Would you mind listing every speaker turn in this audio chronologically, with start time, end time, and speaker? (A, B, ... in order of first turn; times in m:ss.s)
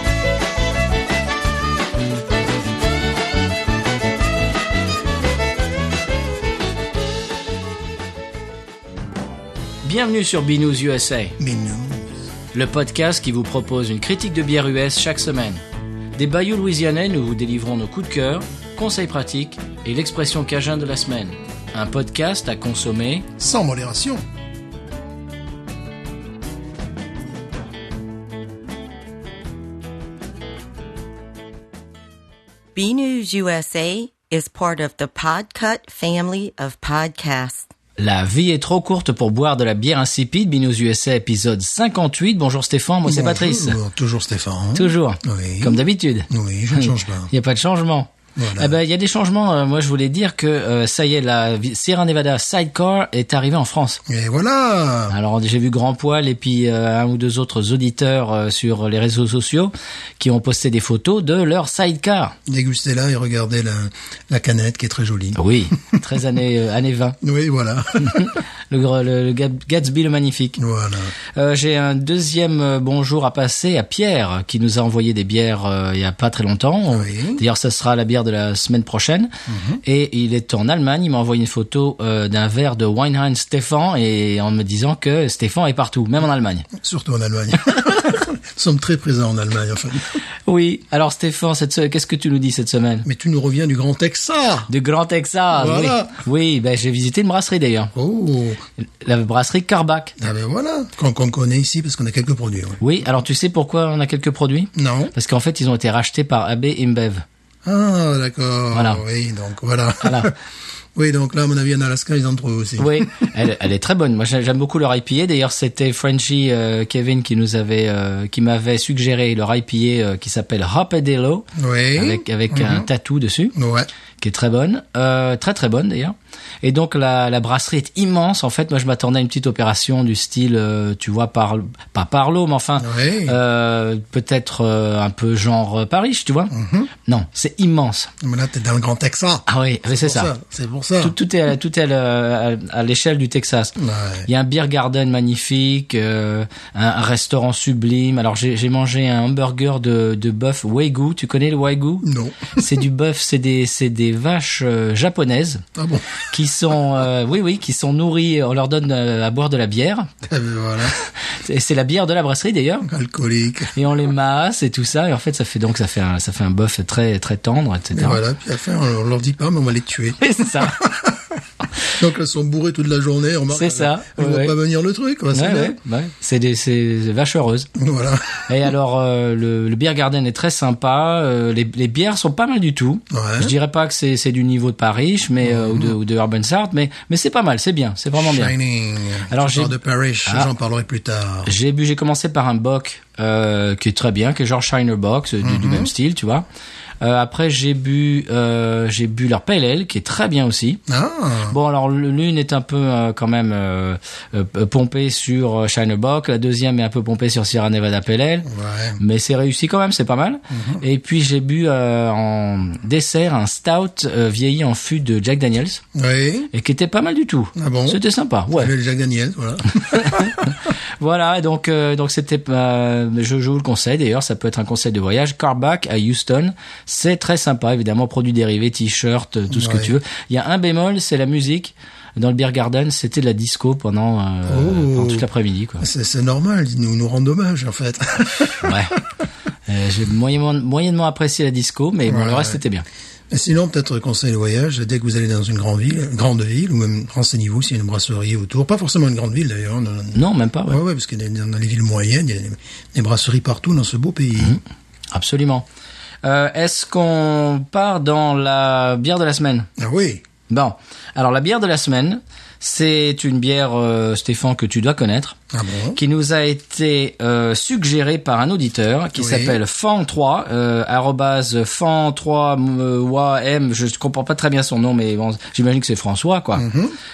0:09.8-0:11.4 A
0:11.4-0:12.1 B
0:12.5-0:15.6 A
0:16.2-0:23.3 A
0:23.4-0:24.2 B
0:32.8-0:37.7 C
0:38.0-0:43.8 A
0:43.0-0:47.3 B
0:44.8-0:54.0 A
0:48.4-0:48.7 B
0:54.1-0:55.2 B
0:55.1-1:02.4 A
1:02.5-1:06.0 B
1:05.4-1:07.2 A
1:07.2-1:08.4 B
1:08.0-1:10.6 A
1:10.6-1:11.1 B
1:11.4-1:26.7 A
1:16.9-1:17.4 B
1:19.5-1:19.8 B
1:26.7-1:30.2 B
1:30.5-1:33.1 A
1:33.0-1:34.7 B
1:34.7-1:37.9 A
1:35.5-1:36.2 B
1:37.9-1:38.6 B
1:39.0-1:40.2 A
1:40.2-1:42.8 B
1:42.8-1:47.2 A
1:44.8-1:45.1 B
1:47.6-1:50.3 B
1:48.7-1:49.0 A
1:50.0-1:50.3 A
1:51.0-1:53.3 B
1:52.8-2:03.5 A
2:01.6-2:02.9 B
2:03.6-2:03.9 B
2:04.2-2:16.5 A
2:12.8-2:13.4 B
2:16.5-2:16.9 B
2:17.0-2:18.1 A
2:18.2-2:21.2 B
2:19.5-2:20.3 A
2:21.0-2:23.8 A
2:23.8-2:24.3 B
2:24.3-2:35.6 A
2:32.0-2:32.7 B
2:35.8-2:36.2 B
2:36.3-2:40.1 A
2:40.3-2:41.0 B
2:41.3-2:42.9 A
2:42.8-2:43.8 B
2:43.8-2:48.2 A
2:47.9-2:51.3 B
2:50.2-2:50.8 A
2:51.9-2:55.8 B
2:53.5-2:54.6 A
2:55.3-2:57.7 A
2:57.8-2:58.5 B
2:58.5-3:08.6 A
3:03.1-3:03.5 B
3:05.4-3:06.0 B
3:08.1-3:11.5 B
3:09.3-3:09.8 A
3:11.5-3:16.4 A
3:15.4-3:15.9 B
3:17.0-3:20.8 A
3:20.9-3:21.6 B
3:21.5-3:28.5 A
3:28.5-3:29.0 B
3:29.0-3:35.8 A
3:30.5-3:30.8 B
3:35.9-3:36.5 B
3:36.5-3:38.7 A
3:37.6-3:40.6 B
3:39.8-3:55.8 A
3:49.5-3:49.9 B
3:54.5-3:55.3 B
3:55.8-3:58.8 B
3:58.6-3:59.0 A
3:59.7-4:02.8 A
4:02.1-4:02.6 B
4:03.3-4:14.6 B
4:10.2-4:10.8 A
4:15.1-4:15.6 A
4:16.2-4:19.7 A
4:19.8-4:20.2 B
4:20.5-4:25.4 A
4:25.5-4:26.0 B
4:25.9-4:36.7 A
4:29.2-4:29.6 B
4:36.6-4:37.0 B